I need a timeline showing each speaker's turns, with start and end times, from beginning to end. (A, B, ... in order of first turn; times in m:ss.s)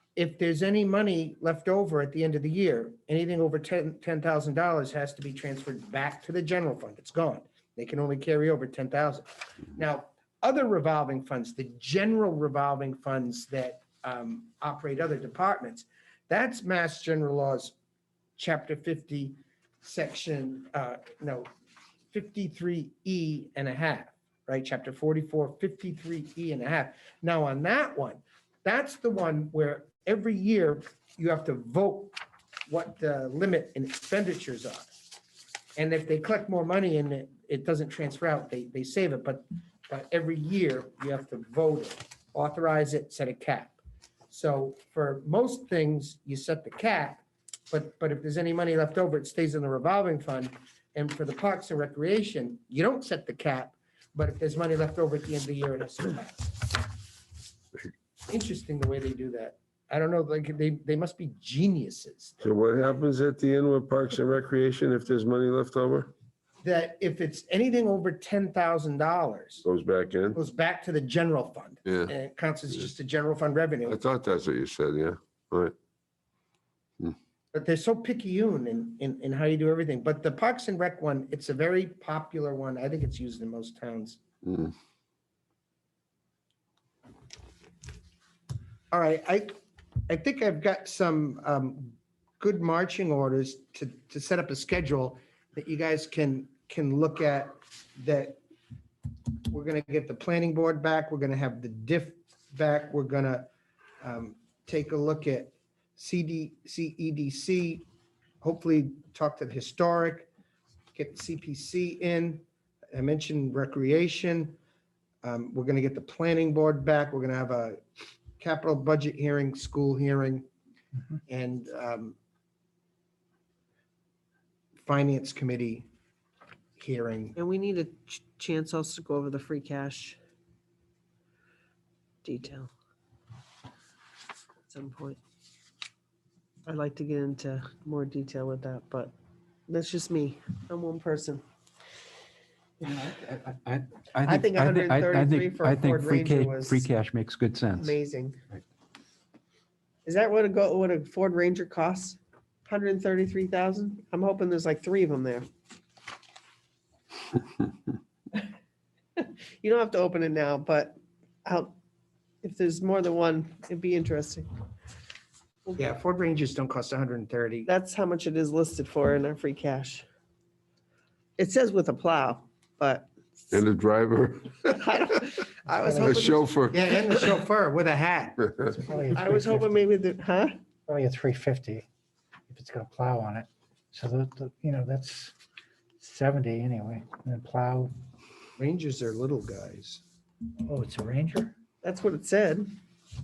0:00.2-0:17.8 A
0:18.4-0:21.5 A
0:22.1-0:32.2 A
0:32.7-0:35.0 A
0:35.8-0:43.8 A
0:44.3-0:56.7 A
0:58.3-1:02.4 A
1:02.4-1:06.1 B
1:06.6-1:09.6 A
1:09.6-1:10.4 B
1:10.3-1:14.0 A
1:11.9-1:12.1 B
1:13.9-1:15.7 B
1:17.5-1:24.2 A
1:24.4-1:24.7 B
1:28.9-1:29.6 A
1:30.1-1:38.4 A
1:39.5-1:43.5 A
1:44.0-1:47.9 A
1:48.4-1:50.3 A
1:51.0-1:54.6 A
1:55.2-1:57.8 A
1:58.4-2:00.5 A
2:01.3-2:02.2 A
2:04.8-2:05.9 A
2:06.8-2:07.4 A
2:07.4-2:10.2 C
2:12.2-2:12.7 C
2:14.7-2:15.2 C
2:16.7-2:19.1 C
2:19.7-2:21.4 C
2:22.8-2:28.0 D
2:24.2-2:26.8 C
2:27.8-2:28.4 C
2:30.0-2:35.5 C
2:39.2-2:41.8 C
2:42.4-2:44.5 C
2:45.8-2:47.7 A
2:47.6-2:50.0 C
2:51.4-2:53.5 C
2:53.5-2:54.7 B
2:54.6-2:56.5 C
2:55.8-2:56.1 E
2:56.0-2:56.8 B
2:56.7-2:58.5 A
2:58.7-2:59.7 E
2:59.1-3:00.6 C
3:00.9-3:01.8 E
3:02.5-3:05.3 E
3:06.0-3:07.9 E
3:08.6-3:10.0 A
3:10.6-3:11.6 E
3:11.8-3:12.8 C